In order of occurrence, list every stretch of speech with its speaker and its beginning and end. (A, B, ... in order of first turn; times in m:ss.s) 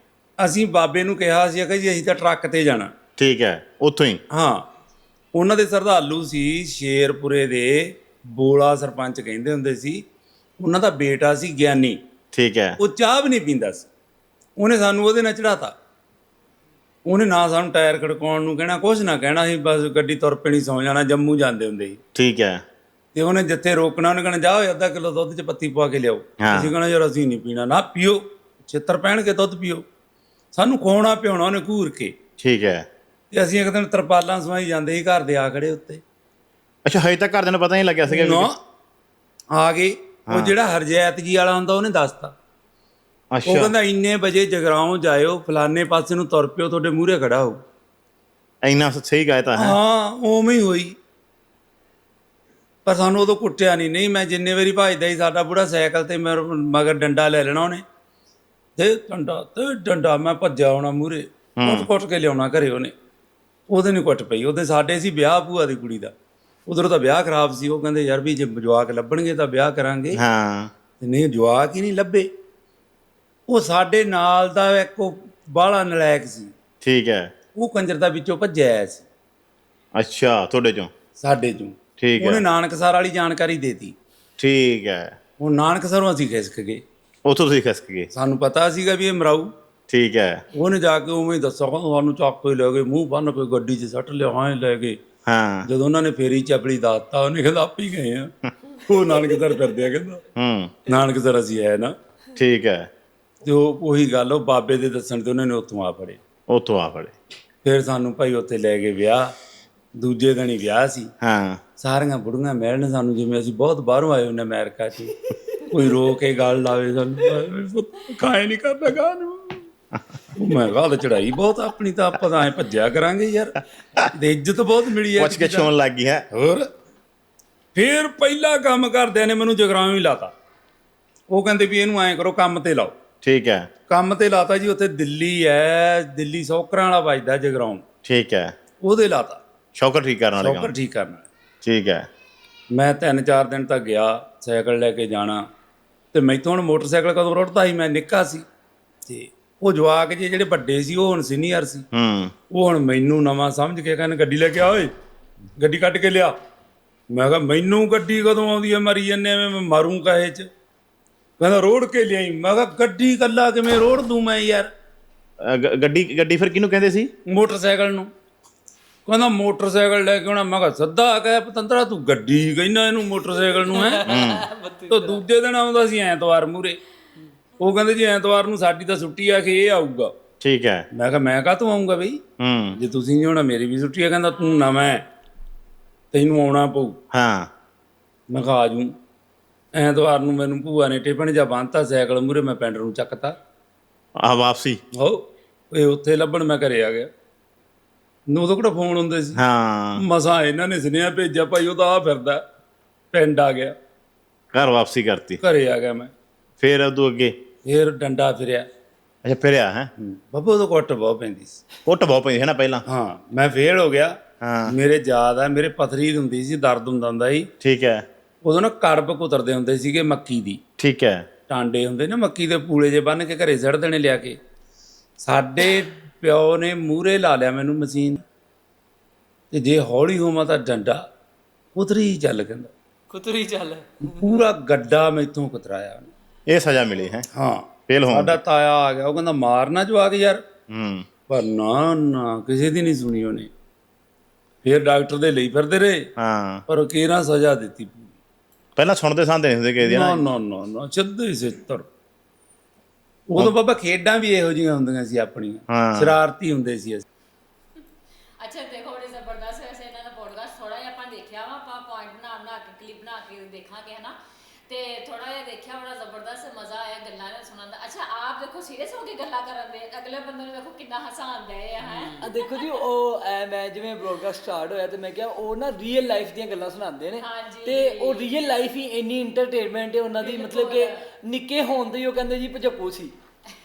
0:00.4-0:02.9 A
0:03.2-0:04.2 B
0:04.3-0:04.7 A
0:05.3-0:10.0 A
0:10.6-0:12.0 A
0:12.3-0:12.8 B
0:12.8-0:13.9 A
0:14.6-0:15.8 A
0:17.0-0:22.0 A
0:22.2-0:22.6 B
0:23.1-0:29.8 A
0:26.4-0:26.7 B
0:30.5-0:32.2 A
0:32.4-0:32.9 B
0:33.3-0:36.0 A
0:36.8-0:38.5 B
0:38.1-0:38.6 A
0:39.5-0:42.3 A
0:40.3-0:40.6 B
0:43.3-0:43.7 B
0:43.5-0:47.6 A
0:48.6-0:49.8 B
0:49.6-0:51.0 A
0:52.8-0:57.8 A
0:58.8-1:02.9 A
1:01.6-1:01.9 B
1:03.7-1:06.1 A
1:06.7-1:10.2 A
1:10.1-1:10.7 B
1:11.0-1:12.3 A
1:13.5-1:16.5 A
1:16.8-1:17.3 B
1:17.6-1:19.0 A
1:20.0-1:20.9 B
1:21.2-1:24.0 A
1:22.0-1:22.4 B
1:24.4-1:25.2 B
1:25.4-1:26.8 A
1:27.2-1:28.1 B
1:28.1-1:29.5 A
1:29.9-1:30.4 B
1:30.5-1:35.0 A
1:35.3-1:35.7 B
1:35.6-1:40.2 A
1:40.4-1:40.8 B
1:40.9-1:42.0 A
1:42.4-1:42.9 B
1:43.4-1:46.2 A
1:46.5-1:47.1 B
1:47.6-1:49.3 A
1:50.0-1:51.1 A
1:51.2-1:51.6 B
1:51.8-1:59.7 A
2:00.4-2:05.7 A
2:05.2-2:06.3 B
2:06.3-2:06.7 A
2:07.8-2:10.3 A
2:11.3-2:13.0 A
2:13.2-2:13.7 B
2:13.9-2:17.8 A
2:18.0-2:18.5 B
2:18.8-2:19.4 A
2:19.8-2:20.7 B
2:20.4-2:21.3 A
2:21.6-2:22.1 B
2:22.7-2:25.4 A
2:26.1-2:28.5 A
2:29.1-2:31.9 A
2:31.9-2:32.3 B
2:32.5-2:34.9 A
2:35.6-2:36.4 A
2:37.1-2:40.5 A
2:41.4-2:44.7 A
2:45.4-2:47.1 B
2:47.3-2:48.1 A
2:49.1-2:54.0 A
2:53.6-2:55.2 C
2:54.0-2:54.4 B
2:54.9-2:56.8 A
2:57.6-3:00.1 A
3:00.4-3:00.9 B
3:00.9-3:02.2 A
3:02.4-3:02.8 B
3:02.8-3:05.1 A
3:06.1-3:07.0 A
3:07.1-3:07.5 B
3:08.3-3:08.9 A
3:09.7-3:13.4 A
3:14.2-3:14.8 B
3:14.9-3:17.1 A
3:18.3-3:19.4 A
3:19.4-3:20.0 B
3:20.0-3:22.4 A
3:23.1-3:23.8 A
3:24.5-3:25.4 B
3:25.4-3:26.1 A
3:26.6-3:27.4 B
3:27.6-3:28.7 A
3:29.2-3:29.9 B
3:30.0-3:31.6 A
3:31.8-3:32.8 B
3:32.9-3:37.5 A
3:34.4-3:34.8 B
3:37.6-3:38.0 B
3:38.4-3:40.6 A
3:40.8-3:41.3 B
3:41.5-3:44.4 A
3:45.2-3:48.2 A
3:49.5-3:51.0 A
3:51.8-3:52.7 A
3:53.1-3:54.4 C
3:54.0-3:56.1 A
3:56.5-3:57.3 B
3:57.3-4:00.4 A
3:57.9-3:58.4 B
4:00.7-4:01.1 B
4:01.3-4:03.5 A
4:04.6-4:06.1 A
4:06.2-4:06.6 B
4:06.7-4:08.1 A
4:08.8-4:10.2 B
4:09.8-4:11.9 A
4:13.3-4:17.0 A
4:15.7-4:16.2 B
4:18.4-4:32.8 D
4:31.8-4:32.2 C
4:32.2-4:43.2 E
4:37.2-4:38.3 D
4:40.2-4:41.0 D